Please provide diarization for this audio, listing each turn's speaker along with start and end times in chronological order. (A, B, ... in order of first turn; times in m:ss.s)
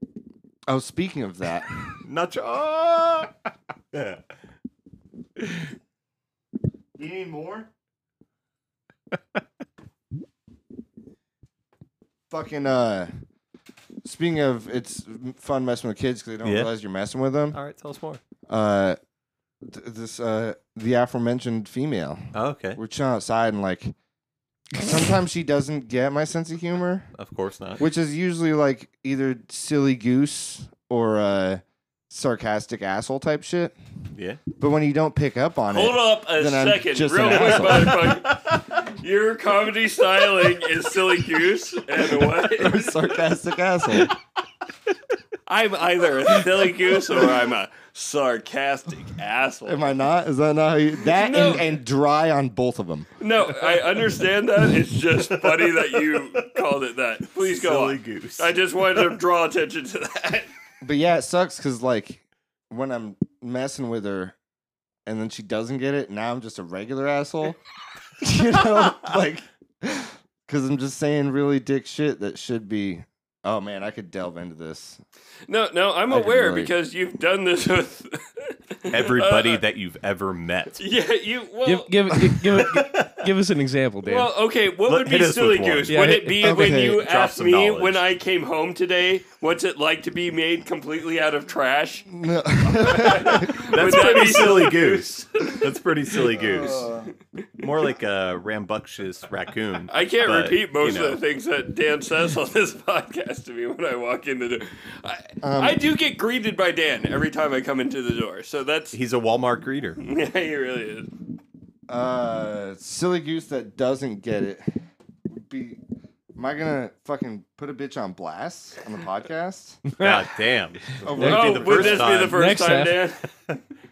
0:00.7-0:02.0 A
0:02.0-0:03.3 B
0:03.9-0:04.2 B
0:07.0-0:07.7 A
0:12.3-0:13.1 A
0:14.0-0:17.6 A
0:16.4-0:16.7 B
0:17.5-0:18.2 B
0:18.5-0:19.0 A
0:19.6-0:23.9 A
0:22.3-0:22.8 B
0:24.8-0:27.1 A
0:27.2-0:27.8 B
0:27.8-0:33.8 A
0:34.1-0:34.4 B
0:34.6-0:38.2 A
0:35.7-0:43.0 C
0:37.7-0:38.6 B
0:42.5-0:44.1 A
0:45.5-0:49.9 C
0:49.6-0:53.1 A
0:51.0-0:51.7 C
0:53.2-1:00.5 C
0:55.4-0:56.5 B
0:57.4-0:59.2 B
1:00.8-1:04.4 A
1:05.0-1:07.6 A
1:08.2-1:15.0 A
1:15.5-1:19.6 C
1:16.1-1:16.7 A
1:18.9-1:20.8 B
1:20.8-1:21.9 C
1:21.6-1:24.3 D
1:22.6-1:23.2 B
1:24.0-1:32.1 C
1:24.8-1:26.0 B
1:25.9-1:26.6 D
1:26.4-1:27.0 A
1:26.8-1:28.0 B
1:32.1-1:34.0 A
1:32.6-1:35.6 C
1:33.3-1:36.9 B
1:36.3-1:37.1 A
1:37.6-1:41.2 B
1:39.9-1:49.0 C
1:45.4-1:45.8 A
1:48.9-1:50.0 B
1:50.0-1:51.1 C
1:51.9-1:54.7 A
1:55.3-1:55.8 A
1:56.3-1:59.8 A
1:59.9-2:00.2 D
2:00.0-2:02.5 B
2:01.0-2:02.2 A
2:01.1-2:03.0 D
2:01.2-2:03.3 C